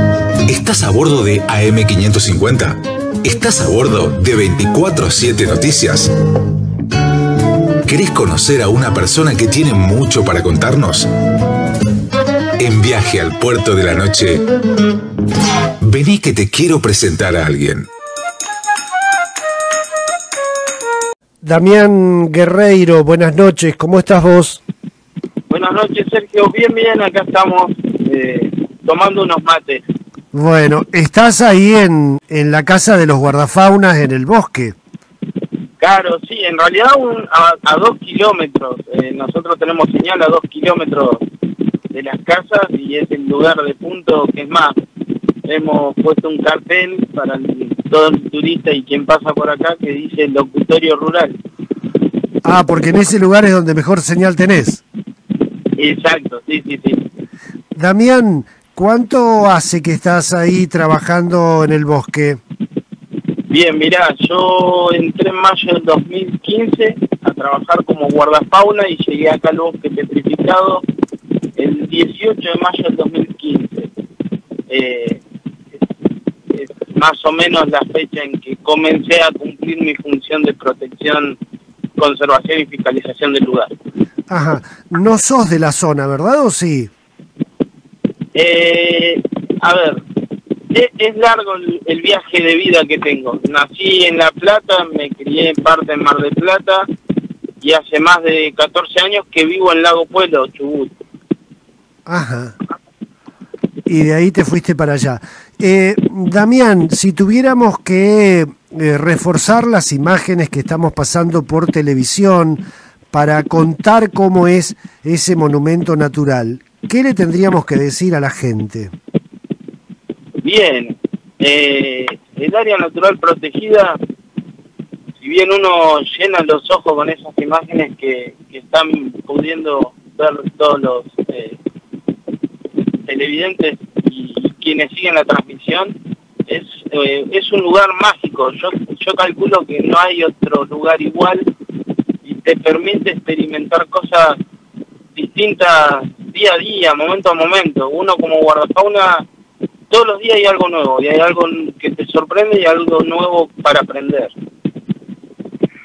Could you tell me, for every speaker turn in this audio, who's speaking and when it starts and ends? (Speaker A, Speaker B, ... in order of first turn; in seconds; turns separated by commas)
Speaker A: 0.5-6.1, Speaker A: 7.9-11.1, Speaker A: 12.6-14.4, Speaker A: 15.8-17.9, Speaker B: 21.4-24.6, Speaker C: 25.5-29.8, Speaker B: 30.3-34.8, Speaker C: 35.8-41.2, Speaker C: 41.9-44.8, Speaker C: 45.5-51.4, Speaker B: 52.5-54.8, Speaker C: 55.8-57.0, Speaker B: 57.8-62.4, Speaker C: 63.5-70.8, Speaker C: 71.6-73.9, Speaker C: 74.7-75.2, Speaker C: 76.5-81.4, Speaker C: 82.0-83.7, Speaker B: 84.3-86.9, Speaker C: 88.3-90.0, Speaker C: 90.7-96.9, Speaker C: 97.6-100.9, Speaker B: 102.1-102.6, Speaker B: 103.9-112.6, Speaker B: 113.1-118.9, Speaker C: 120.4-124.0, Speaker C: 125.2-131.6, Speaker C: 133.1-136.0, Speaker C: 136.5-141.5, Speaker C: 142.2-144.4, Speaker C: 145.2-149.3, Speaker C: 149.9-154.3